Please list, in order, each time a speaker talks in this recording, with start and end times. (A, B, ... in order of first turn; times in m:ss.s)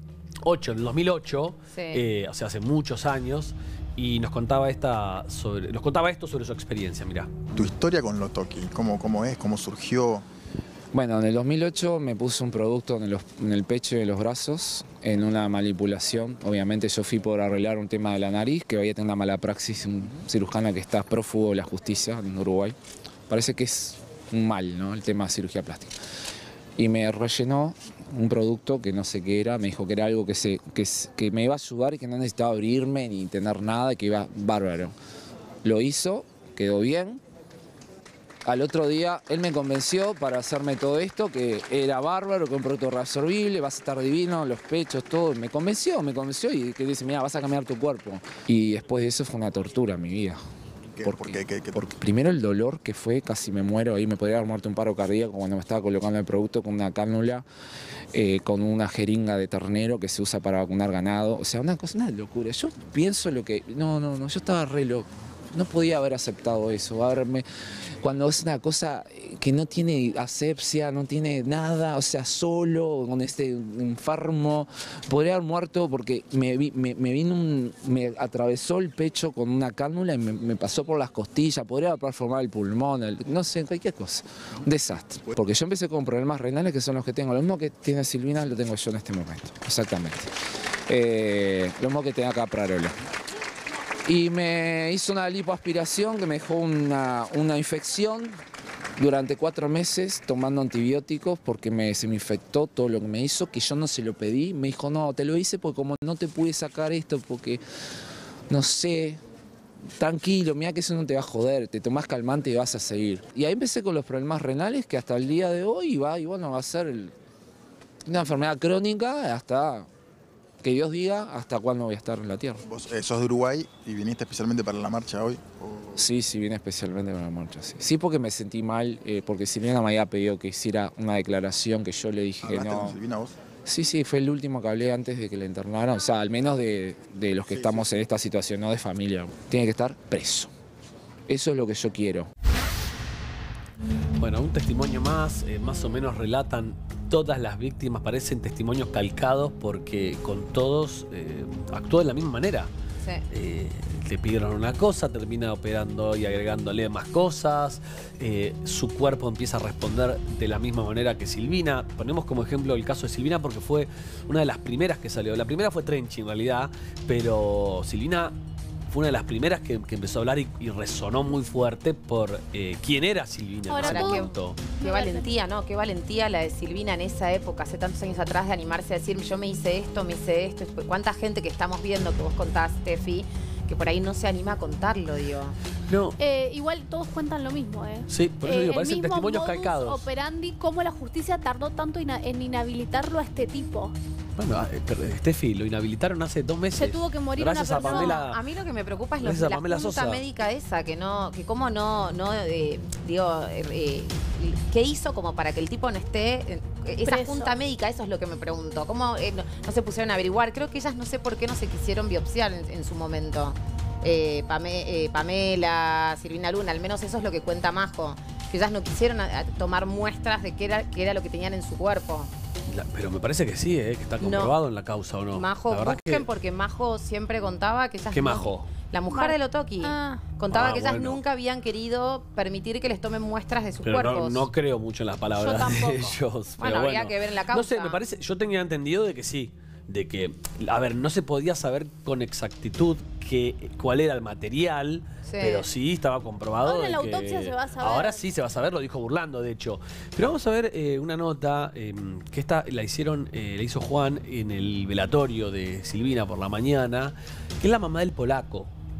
0:00.4-0:07.5 A
0:01.7-0:02.0 B
0:07.5-0:10.3 C
0:10.9-0:22.8 D
0:23.3-0:25.9 D
0:26.8-0:35.0 D
0:35.6-0:37.2 D
0:38.4-0:50.4 D
0:50.9-0:51.8 C
0:51.0-0:57.4 D
0:58.1-1:07.4 D
1:08.0-1:30.3 D
1:30.9-1:32.9 D
1:34.1-1:38.3 D
1:39.0-1:47.6 D
1:48.5-1:49.2 D
1:50.0-1:57.1 D
1:58.1-1:59.9 D
2:00.6-2:02.6 D
2:02.6-2:06.0 C
2:06.0-2:13.0 D
2:12.4-2:13.3 C
2:13.7-2:20.5 D
2:17.4-2:18.0 C
2:21.3-2:22.3 D
2:24.2-2:32.7 A
2:33.3-2:48.4 A
2:48.9-2:54.6 A
2:53.7-2:55.3 E
2:53.8-2:54.3 B
2:54.8-3:05.6 B
3:05.9-3:06.2 A
3:06.2-3:13.9 E
3:08.1-3:10.1 A
3:14.4-3:18.4 A
3:16.8-3:18.2 E
3:17.8-3:42.3 B
3:19.2-3:20.2 A
3:27.0-3:27.5 E
3:42.7-3:46.3 A
3:44.2-3:44.6 B
3:45.3-3:54.5 B
3:48.1-3:48.7 A
3:49.1-3:50.2 E
3:50.5-3:51.2 A
3:53.8-4:18.7 A
3:55.4-3:56.2 E
3:56.6-3:58.0 B
4:05.3-4:05.7 B
4:06.6-4:08.2 E